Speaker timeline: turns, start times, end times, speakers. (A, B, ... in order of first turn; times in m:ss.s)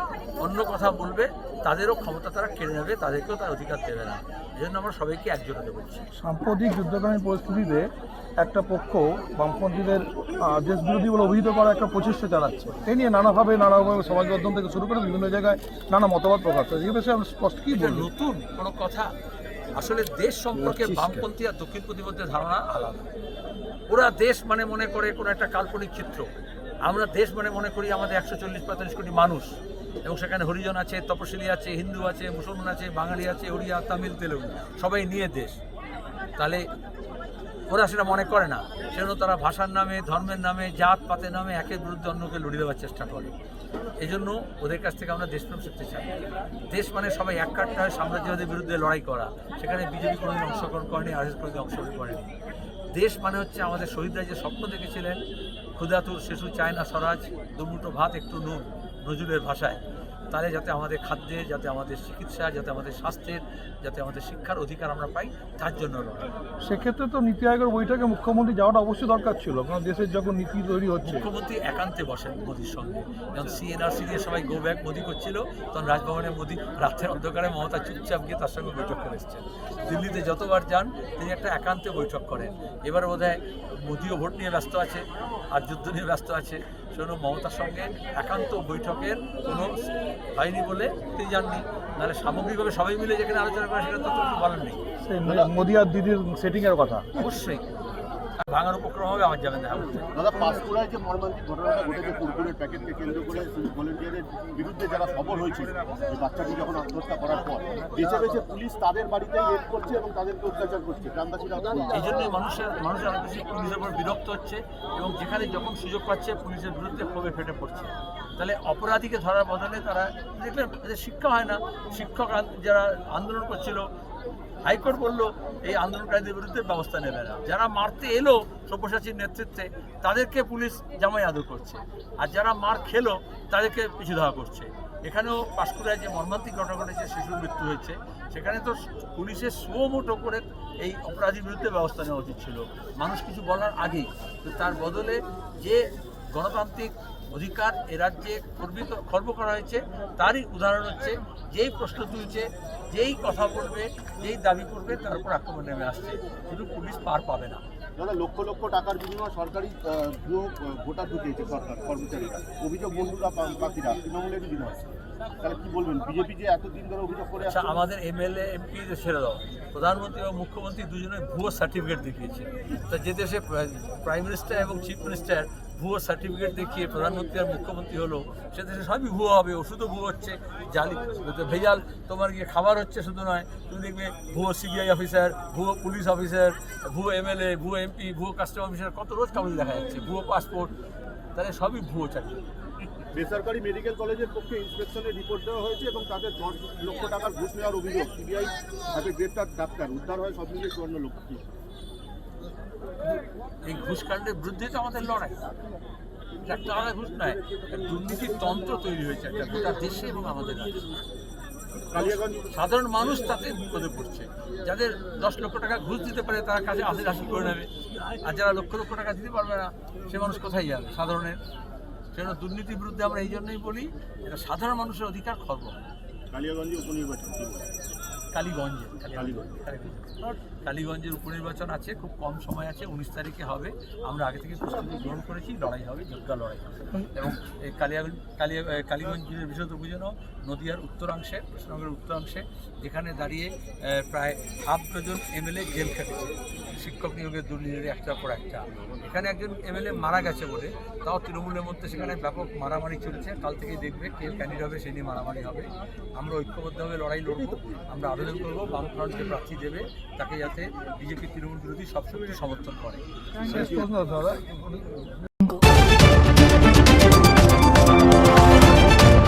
0:00.4-0:06.1 A
0:06.2-0:18.1 B
0:17.7-0:19.1 A
0:19.8-0:23.1 A
0:20.5-0:21.3 B
0:23.9-0:26.2 A
0:26.8-0:35.6 A
0:36.4-0:36.6 A
0:37.7-0:43.3 A
0:44.0-0:46.2 A
0:46.7-0:52.3 A
0:52.9-0:55.2 A
0:55.8-1:06.3 A
1:06.6-1:11.3 B
1:11.0-1:29.8 A
1:30.4-1:34.8 A
1:35.0-1:37.2 B
1:35.2-1:35.5 C
1:37.2-1:37.7 A
1:38.4-1:40.0 A
1:40.2-1:52.1 C
1:51.9-2:03.9 A
2:04.6-2:37.6 A
2:38.0-2:47.7 C
2:47.4-3:10.7 A
3:11.4-3:12.4 A
3:13.1-3:21.5 C
3:23.1-3:25.4 A
3:26.4-3:30.9 A
3:31.9-3:32.4 C
3:32.0-3:41.4 A
3:42.1-3:45.8 A
3:46.3-3:47.7 C
3:48.3-4:23.0 A
3:49.1-3:49.5 C
4:23.4-4:25.2 B